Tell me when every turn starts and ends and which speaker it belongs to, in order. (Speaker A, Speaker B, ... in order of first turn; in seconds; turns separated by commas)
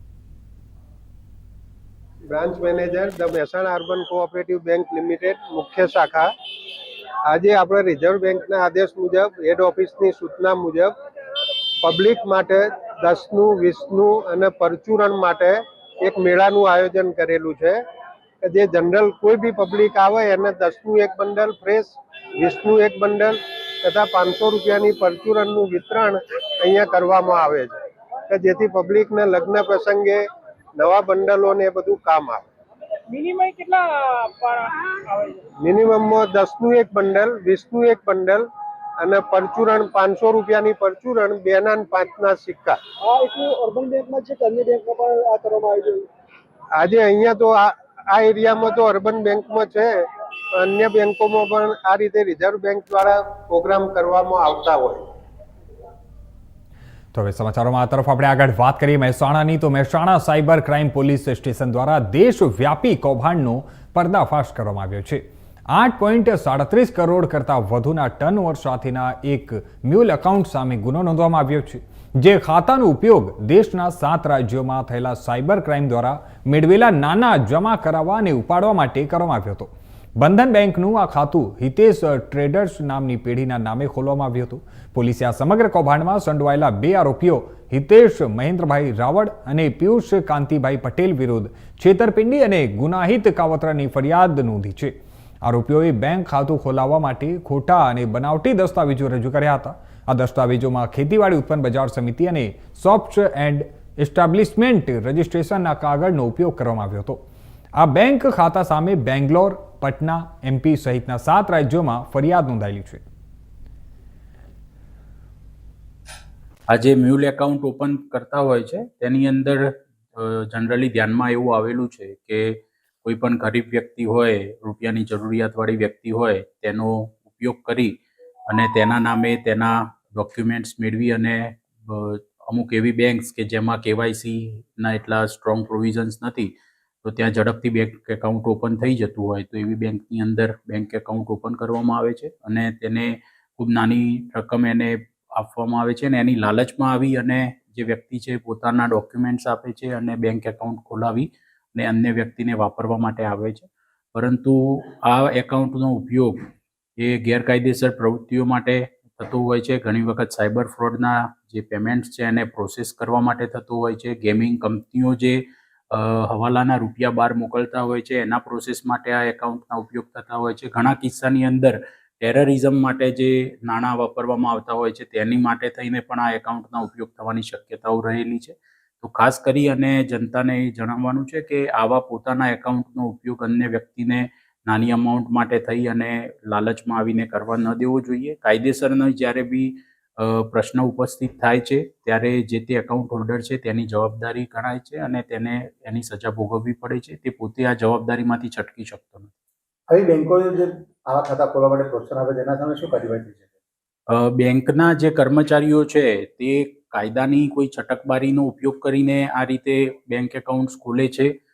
Speaker A: 2.3-6.3, Speaker A: 7.3-10.9, Speaker A: 11.8-17.8, Speaker A: 18.4-27.7, Speaker A: 28.3-30.2, Speaker A: 30.8-32.4, Speaker B: 33.1-35.5, Speaker A: 35.6-38.5, Speaker A: 39.0-42.8, Speaker B: 43.0-46.0, Speaker A: 46.8-50.0, Speaker A: 50.5-55.0, Speaker C: 57.1-107.2, Speaker C: 107.8-113.0, Speaker D: 116.7-127.9, Speaker D: 128.5-136.5, Speaker D: 137.0-156.5, Speaker D: 157.0-199.3, Speaker E: 199.9-203.4, Speaker D: 204.1-211.3